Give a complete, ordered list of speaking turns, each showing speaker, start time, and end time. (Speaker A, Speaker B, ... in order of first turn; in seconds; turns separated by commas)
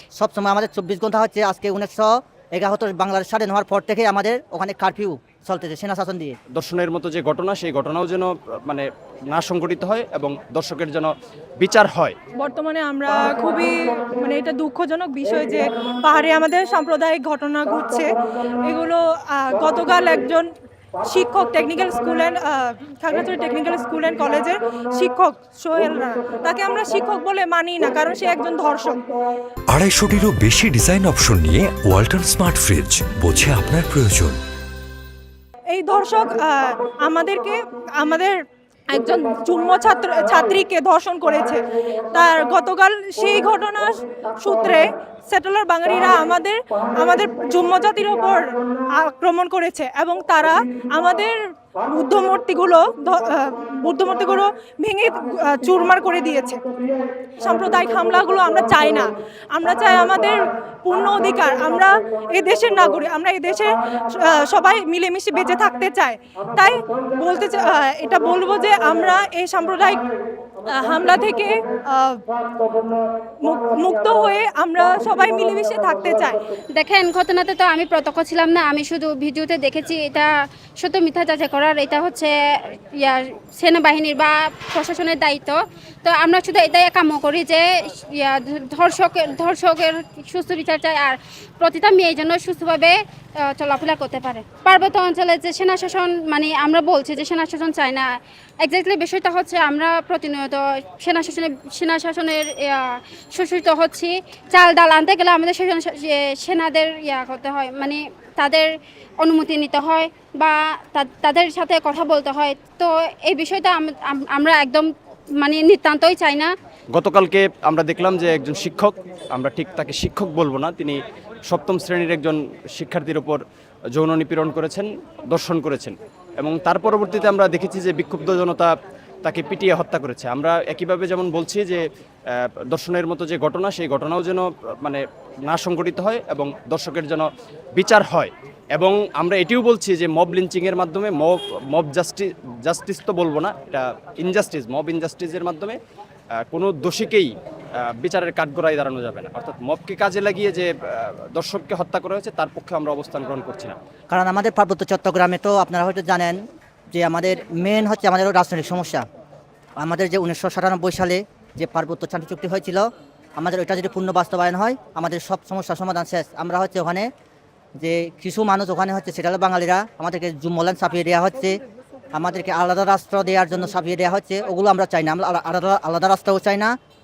Speaker A: 0.2-6.4, Speaker B: 6.5-12.2, Speaker C: 12.3-18.1, Speaker C: 18.6-20.5, Speaker C: 21.1-29.0, Speaker D: 29.7-34.4, Speaker C: 35.7-41.6, Speaker C: 42.1-56.6, Speaker C: 57.4-70.0, Speaker C: 70.7-72.2, Speaker C: 73.4-76.4, Speaker E: 76.8-98.1, Speaker E: 98.6-108.7, Speaker E: 109.2-116.5, Speaker B: 116.9-123.4, Speaker B: 123.9-128.7, Speaker B: 129.2-145.8, Speaker B: 146.5-147.3, Speaker B: 147.8-153.8, Speaker A: 154.1-156.4, Speaker A: 156.9-159.0, Speaker A: 159.8-167.1, Speaker A: 167.8-171.6, Speaker A: 172.1-176.7